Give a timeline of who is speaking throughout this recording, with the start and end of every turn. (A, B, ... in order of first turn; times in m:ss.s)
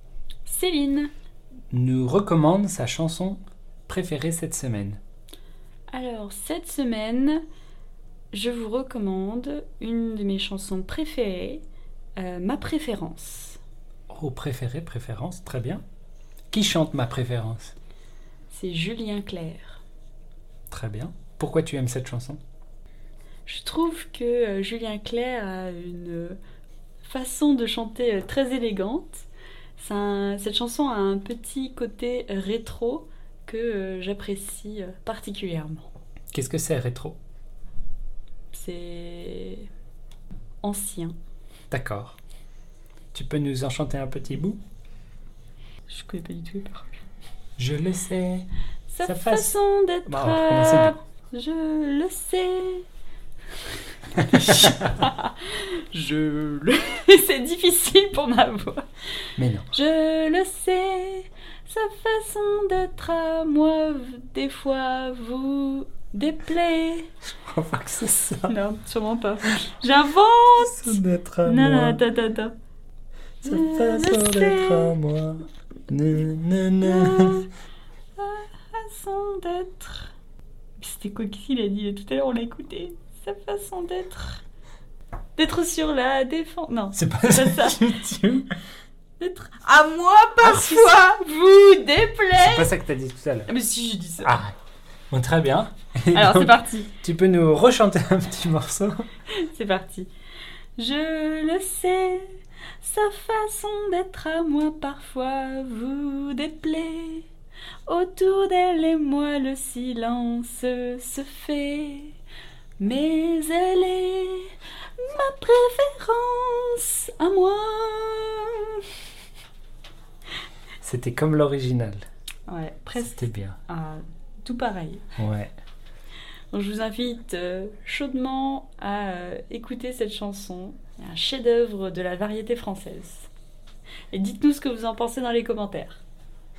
0:00.5-0:01.1 A
0:01.7-0:05.0 B
0:05.9-0:07.4 A
0:08.3-0:11.6 A
0:12.2-0:13.6 A
0:14.1-0:15.8 B
0:16.5-0:17.8 B
0:18.5-0:19.8 A
0:20.7-0:22.4 B
0:23.5-0:26.4 A
0:27.0-0:35.9 A
0:36.3-0:37.2 B
0:38.5-0:39.7 A
0:40.6-0:41.1 A
0:41.7-0:42.2 B
0:43.1-0:44.6 B
0:45.9-0:46.9 A
0:47.6-0:48.5 B
0:48.9-0:52.9 A
0:49.0-0:49.5 B
0:50.1-0:50.9 B
0:53.6-0:58.9 A
0:54.2-0:54.7 B
0:59.4-0:59.7 B
0:59.7-1:07.1 A
1:07.5-1:08.6 B
1:08.5-1:12.5 A
1:10.6-1:12.0 B
1:13.4-1:14.9 A
1:13.4-1:17.5 B
1:16.8-1:17.5 A
1:18.2-1:20.1 A
1:20.8-1:24.4 A
1:25.4-1:27.9 A
1:27.0-1:28.5 B
1:29.2-1:32.7 A
1:30.4-1:30.9 B
1:32.4-1:33.5 B
1:33.5-1:34.4 A
1:34.2-1:34.6 B
1:35.1-1:39.0 B
1:36.1-1:36.9 A
1:39.3-1:40.1 A
1:40.8-1:47.3 A
1:47.9-1:52.2 A
1:52.8-1:58.9 A
2:00.8-2:02.0 B
2:02.5-2:05.0 A
2:03.0-2:03.6 B
2:05.2-2:05.5 B
2:06.5-2:13.3 A
2:14.1-2:16.0 A